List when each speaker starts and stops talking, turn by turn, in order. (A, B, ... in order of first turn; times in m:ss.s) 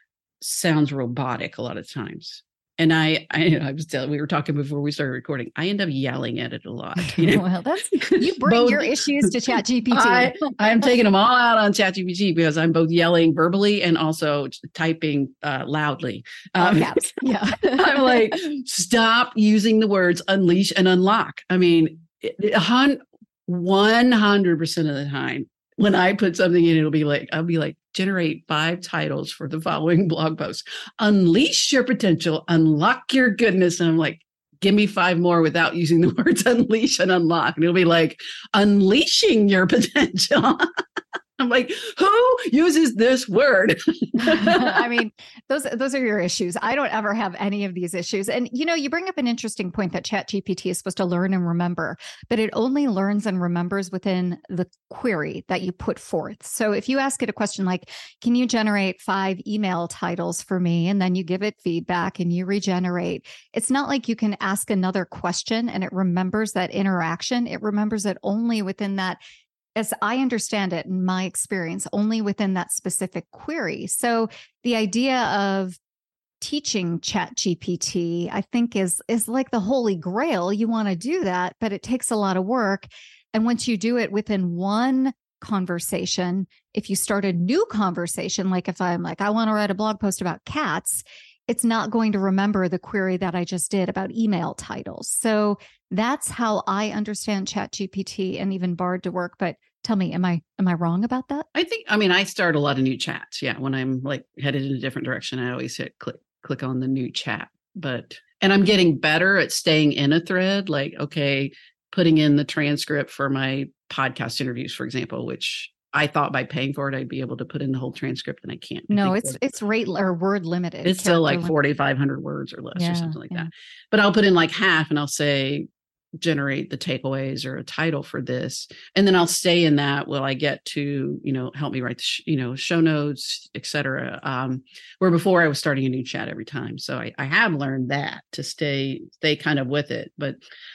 0:00.4-0:09.3 A
0:07.0-0:10.5 B
0:09.9-0:40.6 A
0:16.6-0:18.4 B
0:41.4-0:44.9 A
0:44.2-1:09.2 B
1:09.8-1:15.8 B
1:16.4-1:41.5 B
1:41.5-1:59.4 A
1:58.9-2:01.5 B
2:00.8-2:05.7 A
2:02.8-2:03.5 B
2:06.2-2:20.4 A